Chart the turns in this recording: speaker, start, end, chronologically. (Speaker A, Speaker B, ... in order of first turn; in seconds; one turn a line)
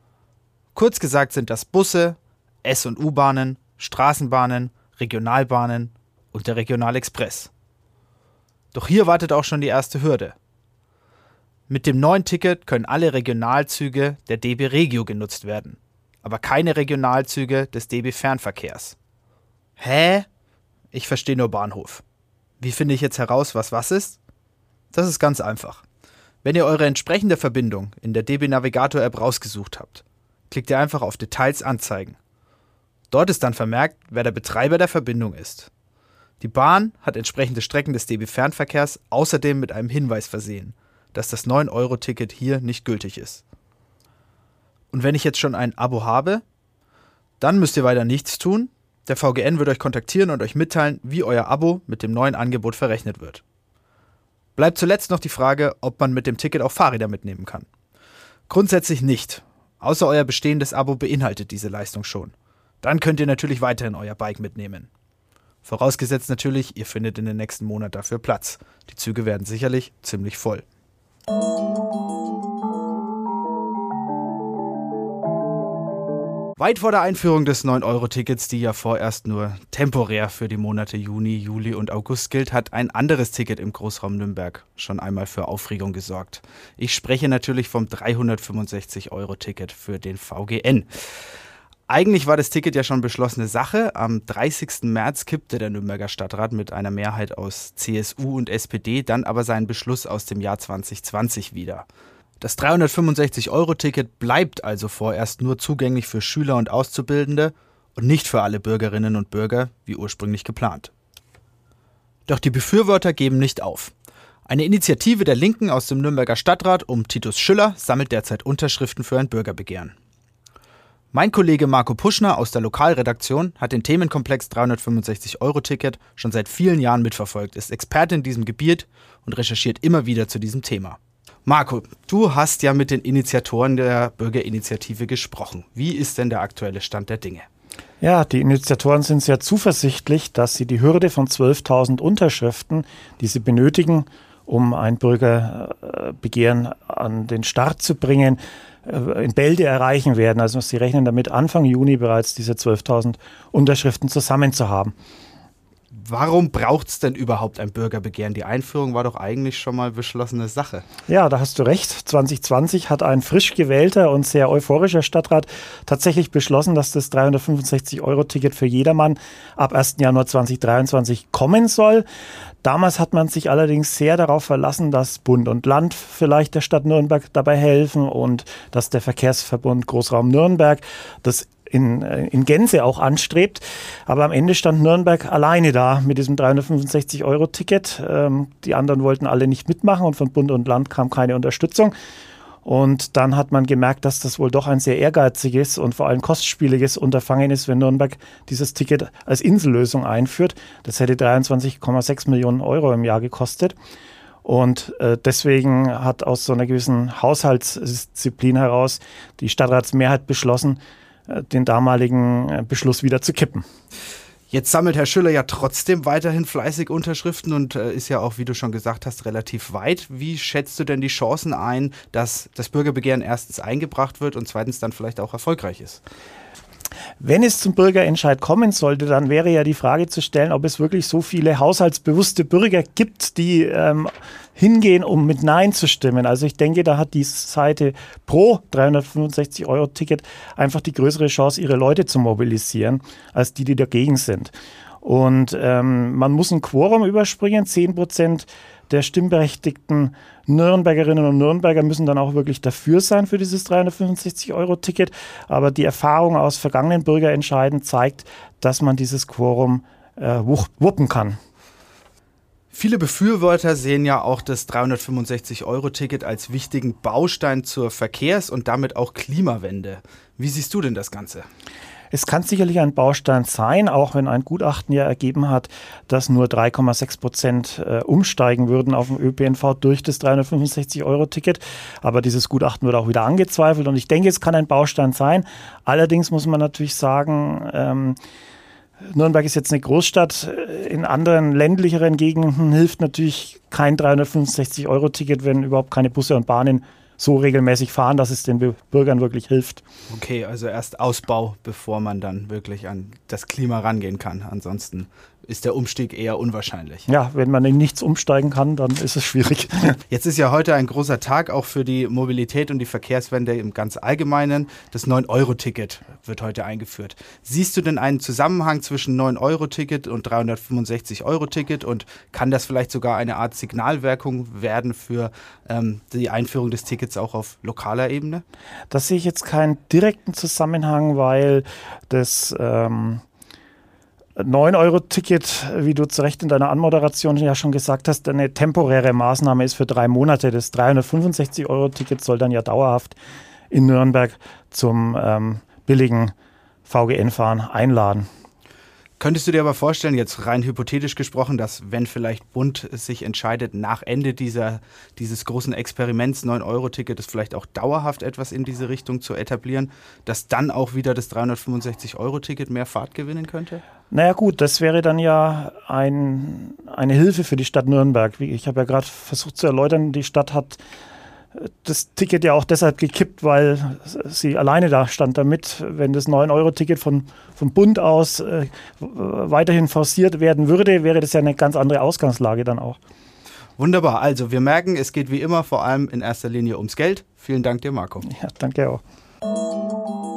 Speaker A: 0.7-7.5
Speaker A: 8.7-10.4
Speaker A: 11.7-19.0
Speaker A: 19.8-20.3
Speaker A: 20.9-22.0
Speaker A: 22.6-24.2
Speaker A: 24.9-25.8
Speaker A: 26.4-32.2
Speaker A: 33.1-35.7
Speaker A: 36.4-43.4
Speaker A: 44.9-46.4
Speaker A: 47.4-53.4
Speaker A: 54.6-57.7
Speaker A: 58.5-64.9
Speaker A: 65.6-70.7
Speaker A: 76.6-90.9
Speaker A: 91.9-101.8
Speaker A: 102.4-110.9
Speaker A: 112.3-113.9
Speaker A: 114.5-119.9
Speaker A: 121.1-137.5
Speaker B: 138.0-154.9
Speaker A: 155.9-160.8
Speaker B: 161.1-172.0
Speaker B: 172.6-191.9
Speaker B: 192.6-203.7
Speaker B: 204.4-213.6
Speaker A: 214.5-226.0
Speaker B: 227.2-261.4
Speaker A: 262.7-271.5
Speaker B: 272.1-288.2
Speaker B: 289.0-299.8
Speaker A: 300.1-307.1
Speaker B: 307.1-310.0
Speaker A: 310.0-328.4
Speaker B: 328.9-333.2
Speaker B: 334.4-343.2
Speaker B: 343.7-346.3
Speaker B: 346.9-348.3
Speaker A: 349.2-363.8
Speaker B: 364.1-370.8
Speaker B: 371.6-383.0
Speaker A: 383.8-388.2
Speaker B: 388.2-389.0